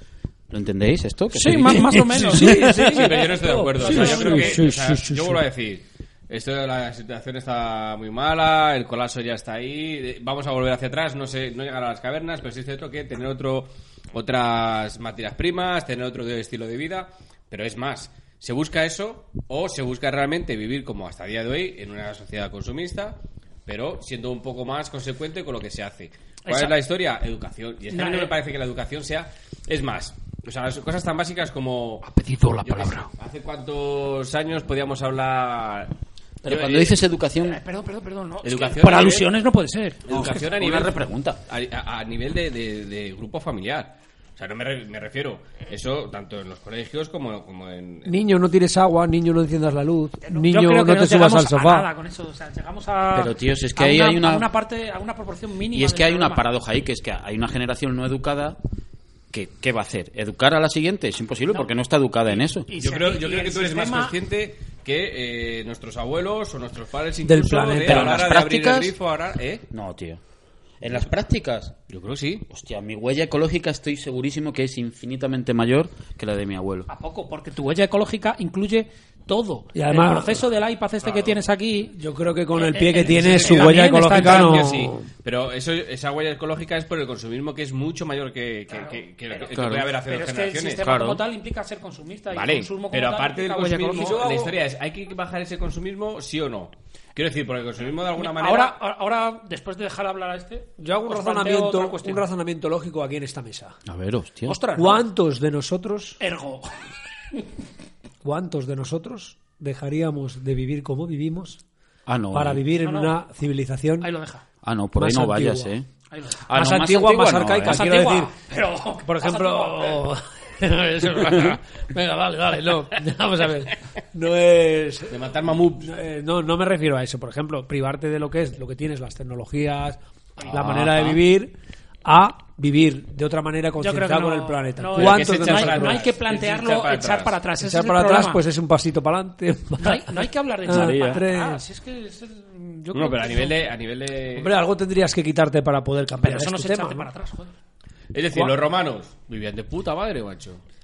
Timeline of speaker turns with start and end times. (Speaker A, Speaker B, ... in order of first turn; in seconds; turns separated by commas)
Speaker A: 0.5-2.9, Speaker B: 1.3-4.7, Speaker C: 1.6-5.4, Speaker D: 2.7-32.0, Speaker B: 26.4-26.7, Speaker B: 27.9-28.3, Speaker B: 32.0-33.1, Speaker D: 32.6-35.9, Speaker A: 36.4-37.6, Speaker D: 36.5-37.0, Speaker B: 37.4-40.0, Speaker D: 38.4-39.3, Speaker D: 40.1-48.2, Speaker A: 40.1-41.4, Speaker C: 48.1-51.9, Speaker B: 50.2-56.5, Speaker A: 53.1-54.5, Speaker A: 55.7-58.6, Speaker A: 59.3-62.7, Speaker B: 62.3-64.2, Speaker D: 62.8-69.6, Speaker C: 67.2-68.2, Speaker A: 67.8-68.9, Speaker A: 69.7-70.2, Speaker A: 70.8-71.8, Speaker D: 71.9-72.5, Speaker A: 72.5-76.9, Speaker B: 76.9-81.9, Speaker C: 79.7-80.4, Speaker D: 81.0-81.4, Speaker C: 81.9-85.0, Speaker B: 82.5-84.7, Speaker D: 83.3-90.8, Speaker B: 88.7-89.5, Speaker A: 89.5-89.9, Speaker B: 90.0-94.3, Speaker A: 90.8-91.2, Speaker D: 92.3-98.8, Speaker C: 93.9-94.6, Speaker B: 98.2-102.2, Speaker C: 100.8-103.8, Speaker A: 103.9-104.6, Speaker B: 104.5-105.0, Speaker C: 104.8-106.2, Speaker B: 106.2-106.8, Speaker C: 108.2-111.6, Speaker A: 112.1-112.6, Speaker C: 112.3-114.1, Speaker B: 112.8-113.2, Speaker B: 114.0-114.4, Speaker A: 114.6-115.9, Speaker C: 115.0-115.7, Speaker B: 116.1-116.4, Speaker A: 116.5-118.0, Speaker C: 116.5-118.3, Speaker B: 117.7-120.0, Speaker C: 119.0-131.5, Speaker D: 125.1-125.9, Speaker D: 130.4-130.9, Speaker A: 130.5-131.2, Speaker C: 132.1-136.1, Speaker B: 133.8-138.4, Speaker D: 134.9-137.4, Speaker C: 137.6-141.6, Speaker B: 139.8-143.6, Speaker A: 140.7-141.2, Speaker D: 142.9-144.5, Speaker C: 144.3-147.1, Speaker B: 146.2-147.5, Speaker D: 148.1-150.6